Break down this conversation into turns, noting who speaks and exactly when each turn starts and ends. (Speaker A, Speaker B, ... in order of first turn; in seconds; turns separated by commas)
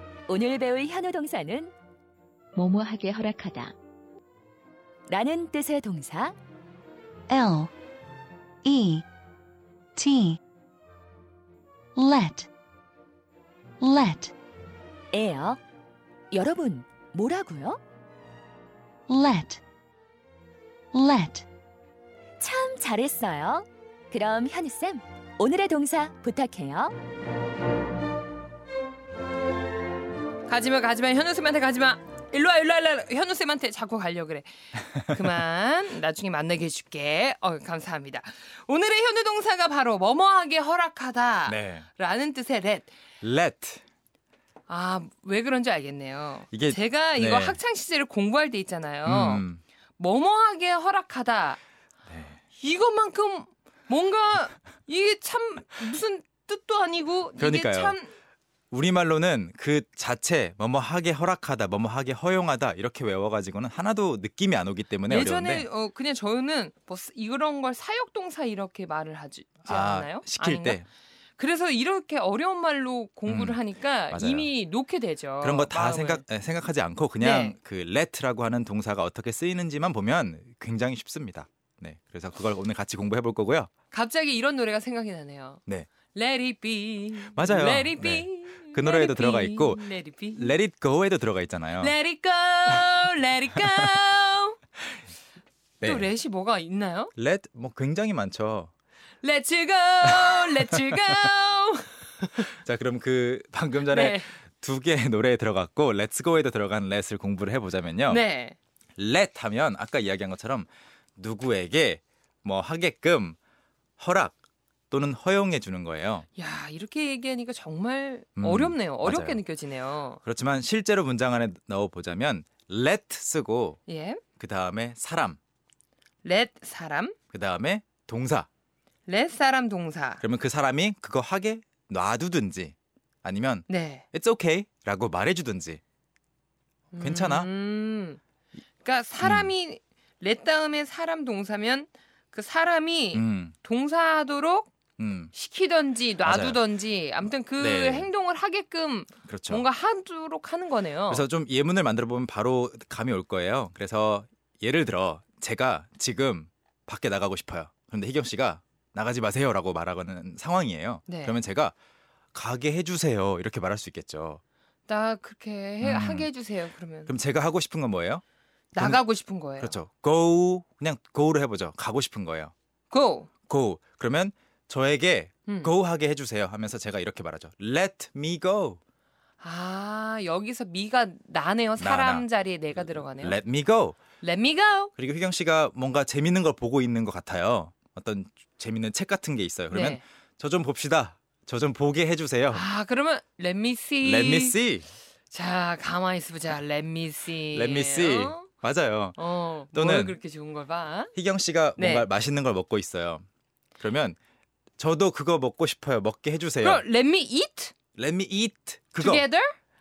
Speaker A: 0.3-1.7, Speaker B: 2.5-3.8, Speaker A: 5.1-6.3, Speaker B: 7.3-7.7, Speaker B: 8.6-9.1, Speaker B: 9.9-10.4, Speaker B: 12.0-12.5, Speaker B: 13.8-14.3, Speaker A: 15.1-15.6, Speaker A: 16.3-17.8, Speaker B: 19.1-19.6, Speaker B: 20.9-21.5, Speaker A: 22.4-26.9, Speaker C: 30.5-42.9, Speaker D: 41.5-41.9, Speaker D: 43.2-43.8, Speaker C: 44.7-49.5, Speaker D: 46.5-47.6, Speaker D: 49.0-49.6, Speaker C: 50.0-51.6, Speaker D: 52.1-52.4, Speaker C: 52.6-58.1, Speaker D: 57.4-58.0, Speaker D: 58.7-65.7, Speaker C: 65.1-70.8, Speaker D: 69.6-70.9, Speaker C: 71.4-76.2, Speaker D: 73.3-74.5, Speaker D: 75.4-83.7, Speaker C: 77.2-77.6, Speaker C: 83.9-85.6, Speaker C: 86.1-90.5, Speaker D: 87.3-92.0, Speaker C: 91.8-94.6, Speaker D: 95.8-96.1, Speaker C: 95.8-97.1, Speaker D: 97.2-98.7, Speaker C: 99.2-102.5, Speaker D: 100.1-101.0, Speaker D: 102.6-108.2, Speaker C: 103.8-104.3, Speaker C: 108.1-108.6, Speaker D: 109.0-113.4, Speaker D: 114.0-114.4, Speaker D: 114.9-116.3, Speaker C: 116.4-120.2, Speaker D: 118.4-119.4, Speaker D: 120.2-123.8, Speaker C: 123.9-124.2, Speaker D: 124.4-125.4, Speaker C: 126.2-127.2, Speaker D: 127.3-128.5, Speaker C: 129.1-130.2, Speaker D: 130.2-135.8, Speaker C: 133.7-134.0, Speaker C: 136.9-138.2, Speaker D: 137.0-137.5, Speaker C: 138.8-144.7, Speaker D: 139.2-139.5, Speaker D: 143.1-143.6, Speaker D: 145.0-145.3, Speaker C: 145.3-151.3, Speaker D: 146.2-146.6, Speaker D: 147.6-148.1, Speaker D: 149.2-149.7, Speaker D: 151.1-161.8, Speaker C: 161.1-161.4, Speaker D: 162.3-164.4, Speaker C: 164.9-167.1, Speaker D: 165.8-166.3, Speaker D: 167.1-168.2, Speaker C: 168.8-169.8, Speaker D: 168.8-169.0, Speaker D: 169.6-172.5, Speaker C: 172.9-173.3, Speaker D: 173.5-178.8, Speaker C: 175.5-175.7, Speaker C: 179.4-183.4, Speaker D: 181.8-184.0, Speaker C: 184.2-184.9, Speaker D: 185.0-192.7, Speaker C: 189.7-190.0, Speaker C: 192.5-194.6, Speaker D: 194.0-194.9, Speaker C: 195.3-198.5, Speaker D: 197.5-199.2, Speaker C: 199.2-201.1, Speaker D: 199.7-200.2, Speaker D: 201.2-203.2, Speaker C: 201.8-202.1, Speaker D: 203.8-204.2, Speaker D: 204.8-206.8, Speaker C: 206.6-207.7, Speaker D: 207.9-209.3, Speaker C: 209.0-209.5